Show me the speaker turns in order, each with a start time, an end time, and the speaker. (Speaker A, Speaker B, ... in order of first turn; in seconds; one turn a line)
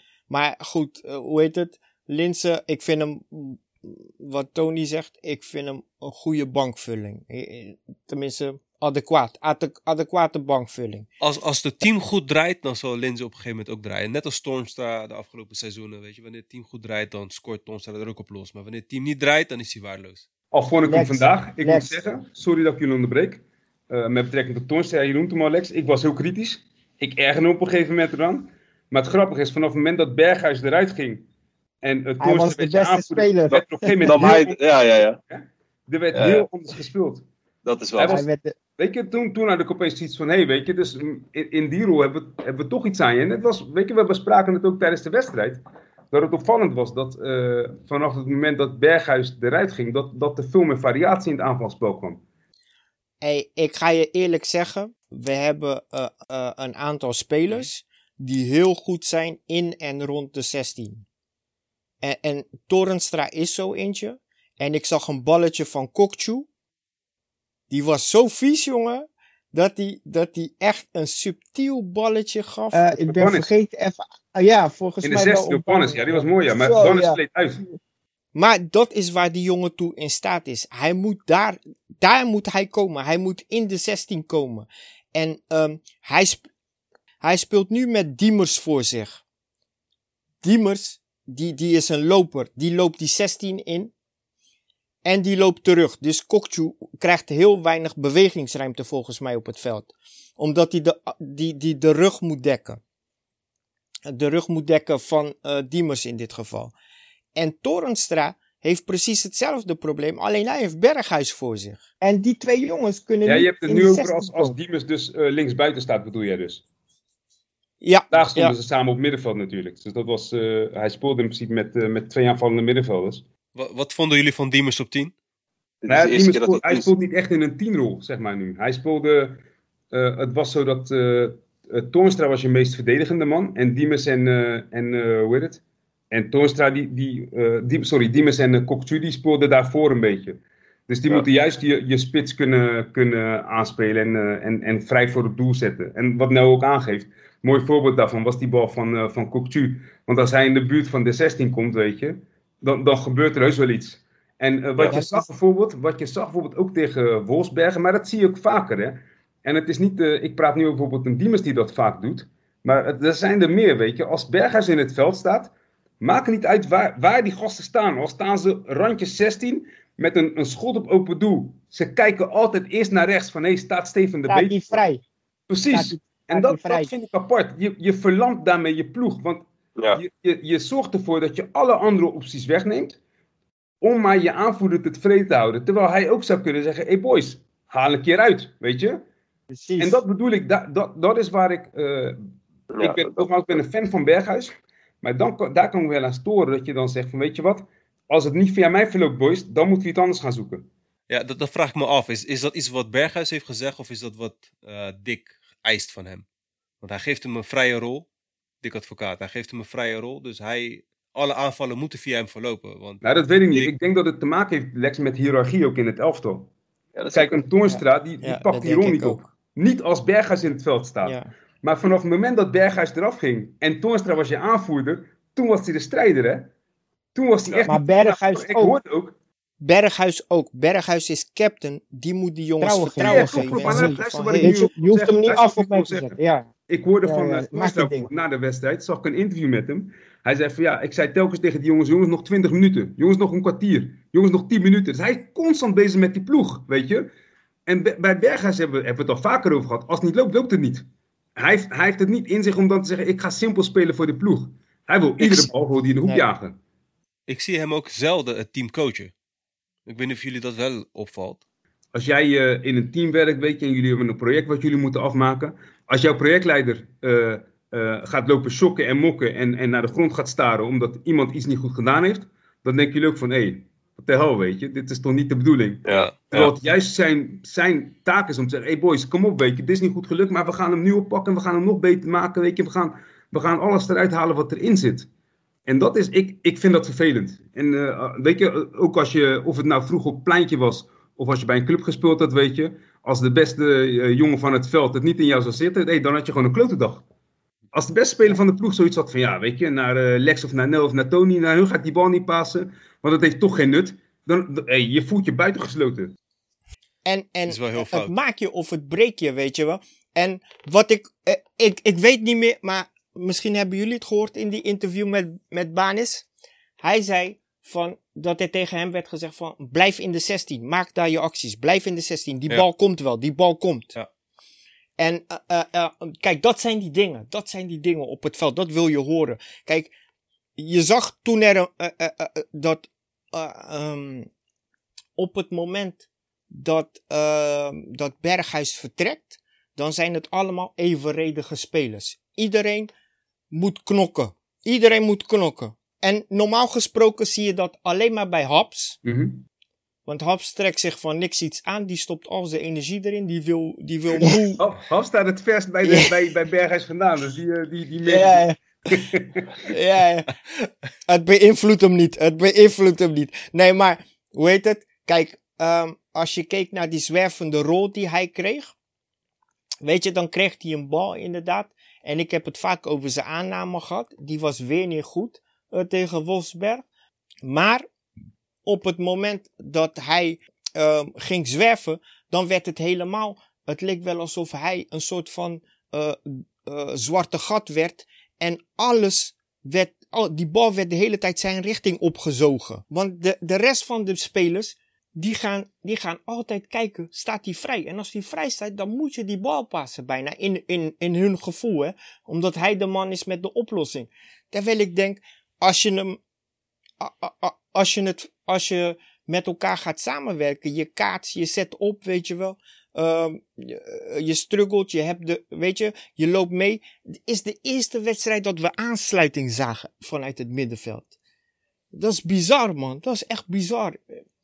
Speaker A: 0.3-11.1
Speaker B: 11.2-20.2
Speaker C: 20.5-31.2
Speaker D: 20.9-21.9
Speaker C: 31.8-34.6
Speaker D: 32.2-34.4
Speaker E: 34.0-35.2
Speaker C: 35.3-37.2
Speaker E: 36.1-36.5
Speaker E: 37.6-38.2
Speaker C: 38.0-38.2
Speaker D: 38.0-38.5
Speaker C: 38.8-52.2
Speaker A: 53.2-61.0
Speaker A: 62.0-66.5
Speaker A: 67.7-72.8
Speaker D: 72.7-77.2
Speaker C: 73.0-73.5
Speaker C: 75.0-77.6
Speaker A: 78.3-86.5
Speaker A: 87.2-89.2
Speaker A: 90.4-93.9
Speaker A: 95.0-102.8
Speaker A: 104.1-106.7
Speaker A: 107.3-111.8
Speaker D: 112.0-114.5
Speaker C: 113.2-116.6
Speaker A: 117.8-118.5
Speaker C: 118.1-123.2
Speaker B: 123.5-125.1
Speaker E: 125.8-126.9
Speaker C: 125.9-174.8
Speaker D: 154.9-155.2
Speaker D: 174.3-175.0
Speaker C: 175.5-183.0
Speaker D: 175.7-176.9
Speaker C: 183.8-189.0
Speaker D: 189.5-190.0
Speaker C: 189.8-192.2
Speaker E: 192.7-193.3
Speaker C: 192.8-200.7
Speaker B: 201.1-206.2
Speaker B: 206.8-208.1
Speaker B: 208.6-213.0
Speaker C: 213.0-216.5
Speaker E: 216.9-217.4
Speaker C: 217.1-226.5
Speaker A: 218.2-219.3
Speaker A: 221.0-221.3
Speaker C: 227.1-229.2
Speaker D: 227.7-228.8
Speaker A: 229.6-234.6
Speaker D: 232.6-236.5
Speaker C: 233.0-236.1
Speaker C: 236.7-247.1
Speaker D: 237.0-238.1
Speaker C: 247.7-250.8
Speaker C: 251.4-256.6
Speaker B: 257.3-259.1
Speaker B: 259.9-261.4
Speaker C: 261.9-285.1
Speaker E: 275.9-276.5
Speaker C: 285.6-297.0
Speaker C: 297.7-306.1
Speaker A: 307.0-316.2
Speaker B: 307.5-308.1
Speaker A: 316.8-323.9
Speaker A: 325.0-329.9
Speaker A: 330.6-334.3
Speaker A: 335.2-342.9
Speaker A: 343.5-349.0
Speaker C: 349.0-349.4
Speaker A: 350.1-354.6
Speaker C: 354.6-359.7
Speaker A: 355.8-356.1
Speaker D: 358.1-358.5
Speaker A: 359.6-360.3
Speaker A: 361.1-368.7
Speaker A: 369.8-376.8
Speaker A: 377.4-377.8
Speaker A: 378.6-406.2
Speaker A: 407.0-421.1
Speaker A: 421.9-424.2